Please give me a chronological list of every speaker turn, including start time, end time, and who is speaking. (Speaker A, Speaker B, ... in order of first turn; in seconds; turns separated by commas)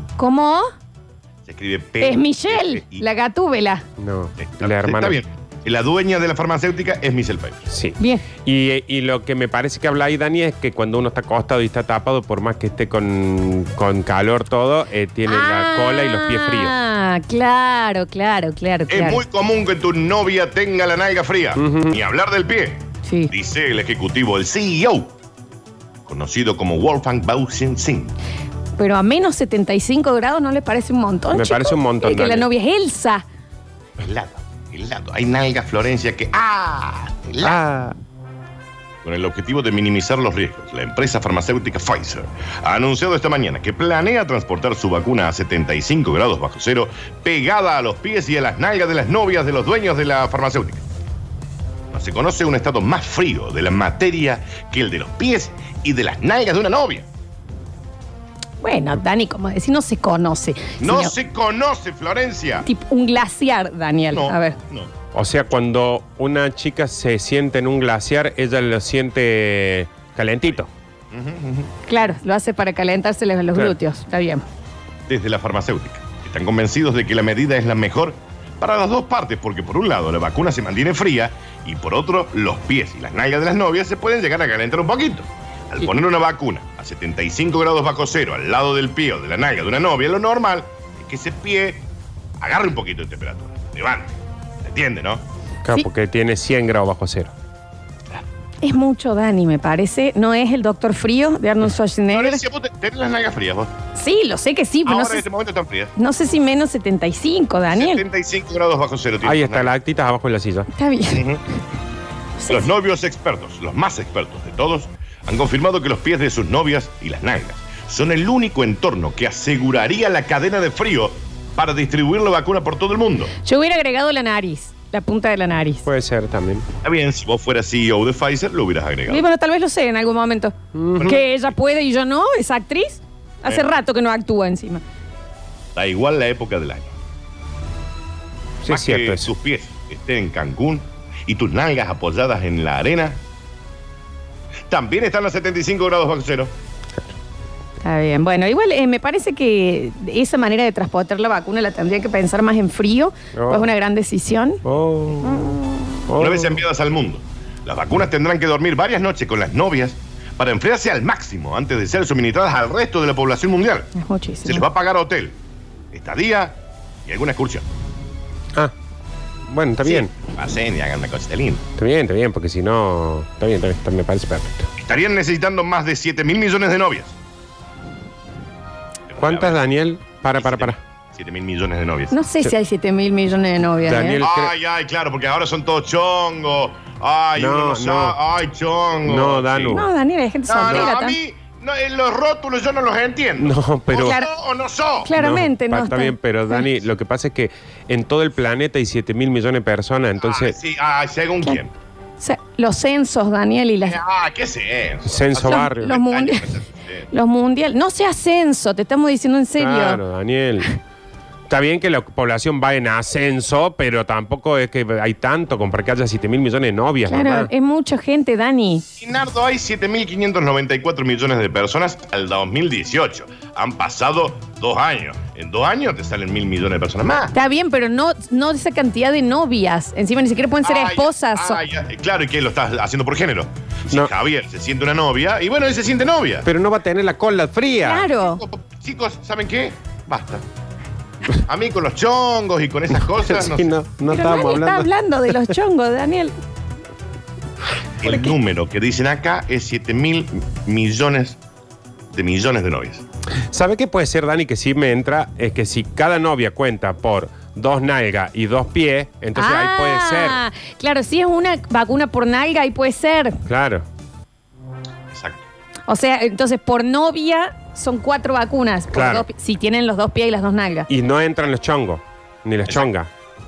Speaker A: 0.2-0.7, Speaker B: 1.5-3.0, Speaker A: 2.0-3.8, Speaker C: 4.0-5.2, Speaker B: 4.4-7.7, Speaker C: 7.7-16.7, Speaker A: 8.0-8.3, Speaker A: 15.3-19.2, Speaker B: 18.9-25.1, Speaker C: 21.6-22.0, Speaker A: 23.0-23.3, Speaker B: 26.1-28.1, Speaker A: 28.8-33.3, Speaker C: 31.3-32.5, Speaker B: 34.0-37.6, Speaker C: 37.4-38.0, Speaker B: 39.0-50.9, Speaker B: 51.9-57.1, Speaker A: 58.6-61.1, Speaker B: 60.8-62.7, Speaker A: 62.6-64.6, Speaker B: 64.1-64.9, Speaker C: 65.1-70.7, Speaker B: 71.1-71.7, Speaker A: 71.9-74.4, Speaker B: 75.1-91.9, Speaker B: 92.4-95.2, Speaker C: 95.6-97.3, Speaker A: 98.6-102.4, Speaker B: 102.1-103.7, Speaker A: 104.0-105.3, Speaker B: 104.8-105.9, Speaker A: 106.0-108.0, Speaker B: 107.7-109.8, Speaker C: 109.2-110.7, Speaker A: 110.7-111.2, Speaker B: 111.1-111.4, Speaker A: 112.4-112.7, Speaker B: 112.5-123.3, Speaker A: 123.4-125.9, Speaker C: 125.8-126.7, Speaker B: 126.8-129.3, Speaker A: 129.1-134.8, Speaker C: 130.7-131.2, Speaker B: 130.9-131.2, Speaker B: 133.5-133.7, Speaker B: 135.8-136.9, Speaker C: 138.6-139.3, Speaker B: 138.7-143.2, Speaker B: 144.7-146.5, Speaker A: 147.8-154.6, Speaker C: 153.3-153.7, Speaker C: 154.6-156.6, Speaker B: 156.2-163.9, Speaker A: 163.9-164.6, Speaker B: 164.4-165.4, Speaker B: 165.9-167.7, Speaker C: 169.5-170.1, Speaker B: 169.8-171.6, Speaker C: 171.8-174.7, Speaker B: 174.8-177.2, Speaker B: 179.1-179.6, Speaker C: 179.2-180.8, Speaker B: 180.3-182.2, Speaker A: 182.1-184.2, Speaker C: 183.8-184.5, Speaker B: 184.2-189.8, Speaker C: 187.4-188.2, Speaker C: 189.0-189.9, Speaker A: 189.7-191.2, Speaker B: 190.5-195.1, Speaker C: 190.6-190.9, Speaker C: 193.4-194.2, Speaker A: 194.0-194.3, Speaker A: 195.0-196.7, Speaker C: 195.2-200.6, Speaker B: 200.2-201.7, Speaker A: 202.2-204.0, Speaker B: 203.8-207.1, Speaker C: 205.1-206.0, Speaker A: 205.4-206.5, Speaker A: 207.1-210.0, Speaker C: 209.6-210.7, Speaker C: 211.5-217.5, Speaker A: 217.1-218.8, Speaker B: 219.0-227.3, Speaker A: 227.3-231.6, Speaker B: 230.6-236.5, Speaker C: 236.4-238.1, Speaker A: 237.8-238.4, Speaker B: 238.2-240.4, Speaker B: 241.5-243.8, Speaker C: 243.1-245.5, Speaker A: 244.1-246.3, Speaker B: 248.0-251.4, Speaker A: 248.0-248.4, Speaker B: 252.1-253.0, Speaker C: 253.5-260.4, Speaker A: 259.4-263.4, Speaker C: 263.5-263.9, Speaker B: 265.1-265.4, Speaker A: 265.9-270.9, Speaker C: 268.9-269.3, Speaker C: 270.9-273.1